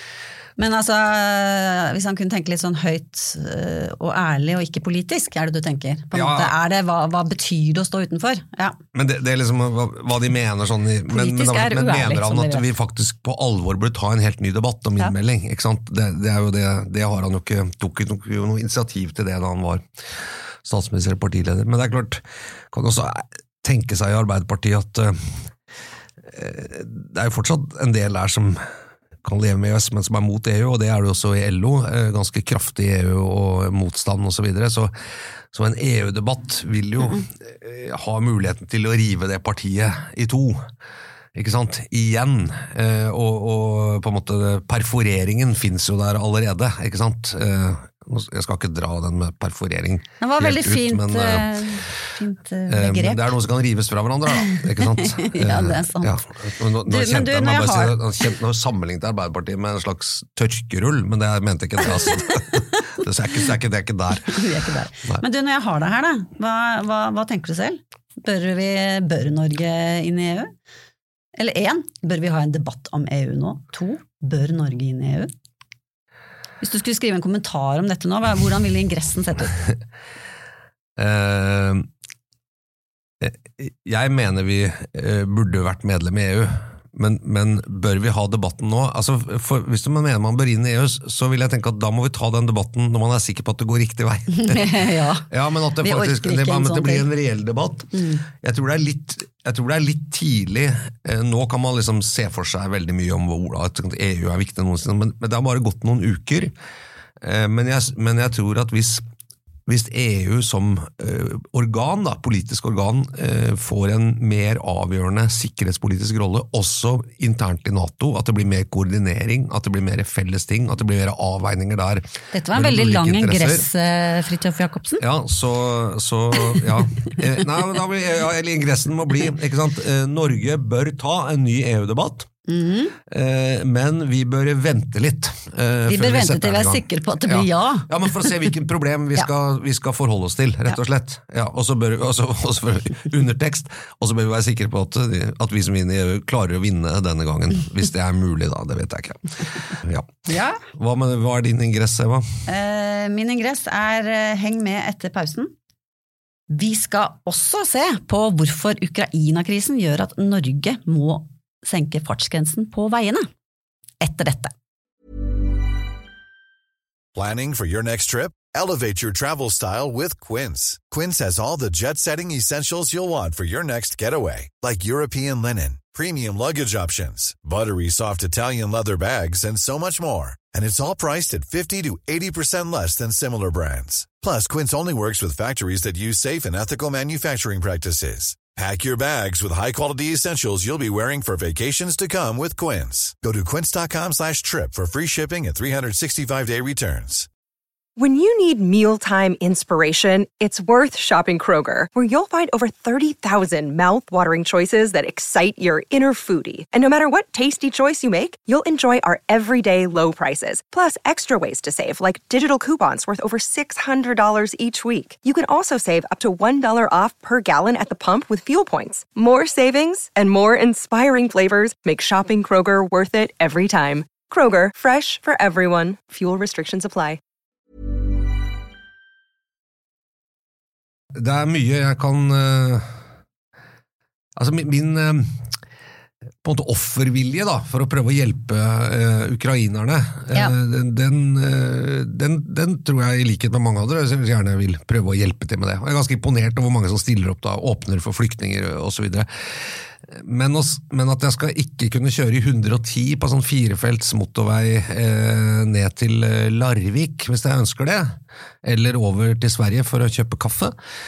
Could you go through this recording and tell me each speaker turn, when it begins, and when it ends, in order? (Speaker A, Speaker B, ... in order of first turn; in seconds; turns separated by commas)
Speaker A: 0.6-8.8, Speaker B: 6.1-6.5, Speaker B: 8.9-19.8, Speaker A: 11.1-12.7, Speaker B: 20.6-25.4, Speaker B: 26.3-28.7, Speaker B: 29.2-34.9, Speaker B: 35.5-40.6, Speaker A: 37.0-37.2, Speaker B: 41.4-51.5, Speaker A: 50.2-53.3, Speaker B: 52.7-64.4, Speaker A: 54.4-56.2, Speaker A: 56.9-58.3, Speaker A: 61.8-62.6, Speaker A: 64.2-70.5, Speaker A: 71.4-75.3, Speaker A: 76.6-79.6, Speaker B: 81.0-81.9, Speaker B: 83.2-106.5, Speaker A: 94.3-97.1, Speaker A: 97.9-98.2, Speaker B: 107.2-109.0, Speaker B: 109.7-123.7, Speaker A: 122.3-125.0, Speaker B: 125.0-132.3, Speaker A: 132.5-133.0, Speaker B: 133.1-152.2, Speaker A: 135.9-138.4, Speaker A: 150.3-150.6, Speaker A: 152.5-155.5, Speaker A: 156.5-163.3, Speaker A: 164.0-164.5, Speaker C: 167.2-197.3, Speaker D: 198.0-227.2, Speaker B: 231.2-233.0, Speaker B: 234.4-235.4, Speaker B: 236.4-260.8